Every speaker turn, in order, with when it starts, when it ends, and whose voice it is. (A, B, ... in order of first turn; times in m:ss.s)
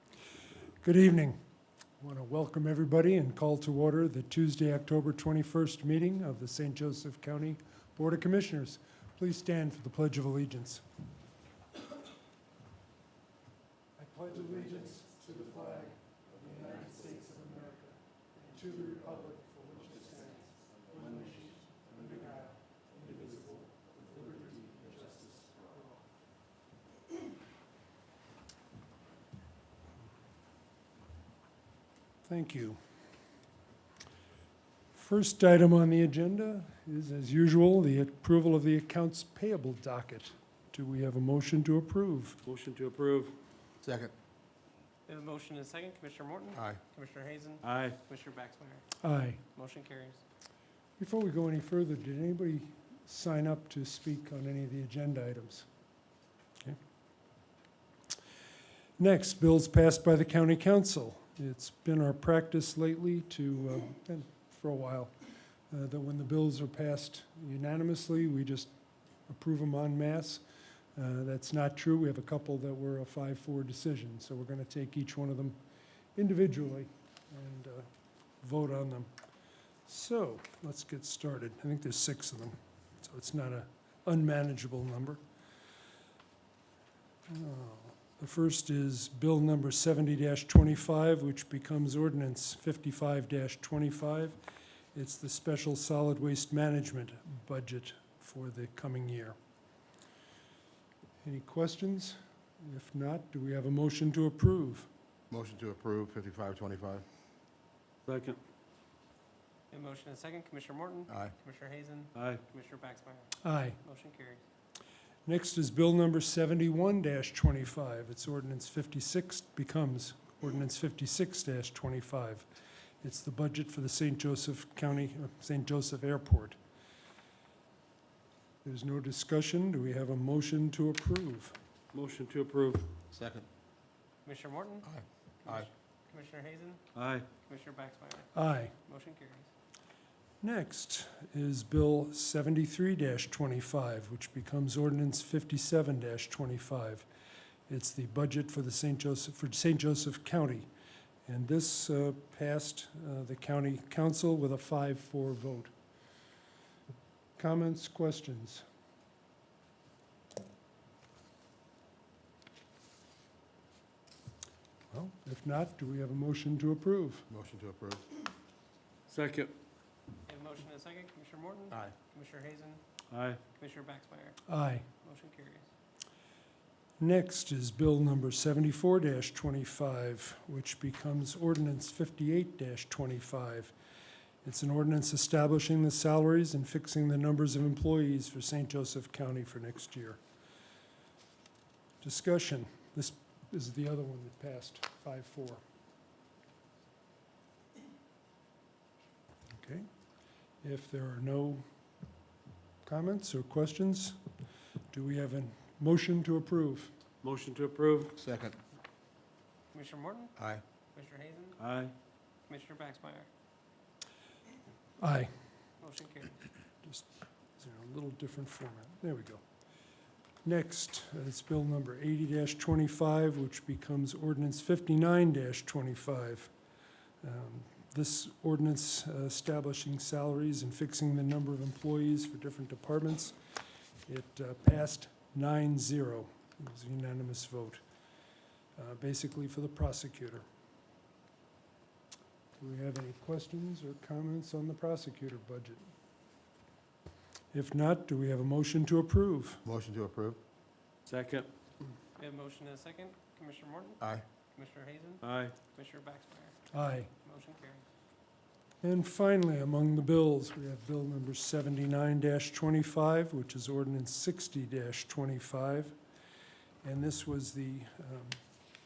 0:00.8-0:01.4 A
0:02.0-0:10.8 A
0:14.0-0:23.6 A
0:24.2-0:25.0 A
0:32.2-0:32.8 A
0:34.9-0:42.4 A
0:42.4-0:43.3 B
0:43.8-0:44.1 C
0:45.1-0:48.8 D
0:47.6-0:48.0 B
0:49.0-0:49.4 A
0:49.4-0:50.2 D
0:51.0-0:55.7 A
0:59.0-1:05.1 A
1:05.7-1:08.7 A
1:09.3-1:10.4 A
1:11.0-1:15.6 A
1:16.2-1:17.9 A
1:18.4-1:19.1 A
1:19.8-1:25.2 A
1:27.3-1:39.4 A
1:41.2-1:44.9 A
1:45.3-1:47.0 C
1:48.1-1:48.4 B
1:49.7-1:54.4 D
1:52.1-1:52.4 B
1:53.4-1:53.8 A
1:55.2-2:02.5 A
2:03.0-2:06.6 A
2:08.6-2:11.6 A
2:11.9-2:12.9 B
2:13.1-2:13.5 C
2:14.2-2:16.8 D
2:14.8-2:15.7 C
2:16.9-2:17.3 B
2:17.4-2:19.5 D
2:18.3-2:18.7 A
2:20.4-2:27.0 A
2:27.7-2:30.7 A
2:31.2-2:35.7 A
2:37.4-2:38.6 A
2:44.9-2:47.3 A
2:47.3-2:48.0 C
2:49.1-2:49.5 B
2:50.2-2:52.8 D
2:53.1-2:53.4 B
2:53.5-2:55.7 D
2:54.5-2:54.8 A
2:57.0-3:03.7 A
3:04.4-3:10.2 A
3:12.0-3:15.6 A
3:19.5-3:19.8 A
3:20.6-3:21.6 A
3:22.8-3:24.2 A
3:24.9-3:26.9 A
3:27.2-3:28.1 B
3:28.2-3:28.6 C
3:29.7-3:30.4 D
3:30.4-3:30.6 C
3:30.9-3:31.6 D
3:31.6-3:31.9 B
3:32.5-3:33.3 D
3:35.0-3:35.3 A
3:35.8-3:36.4 D
3:36.8-3:39.4 A
3:40.4-3:46.5 A
3:47.2-3:53.4 A
3:54.0-3:57.8 A
3:58.8-4:00.4 A
4:02.6-4:05.8 A
4:07.5-4:09.6 A
4:09.6-4:10.4 C
4:11.1-4:11.5 B
4:12.2-4:16.6 D
4:15.2-4:15.6 B
4:16.7-4:17.1 A
4:17.1-4:17.8 D
4:18.8-4:26.0 A
4:26.8-4:28.4 A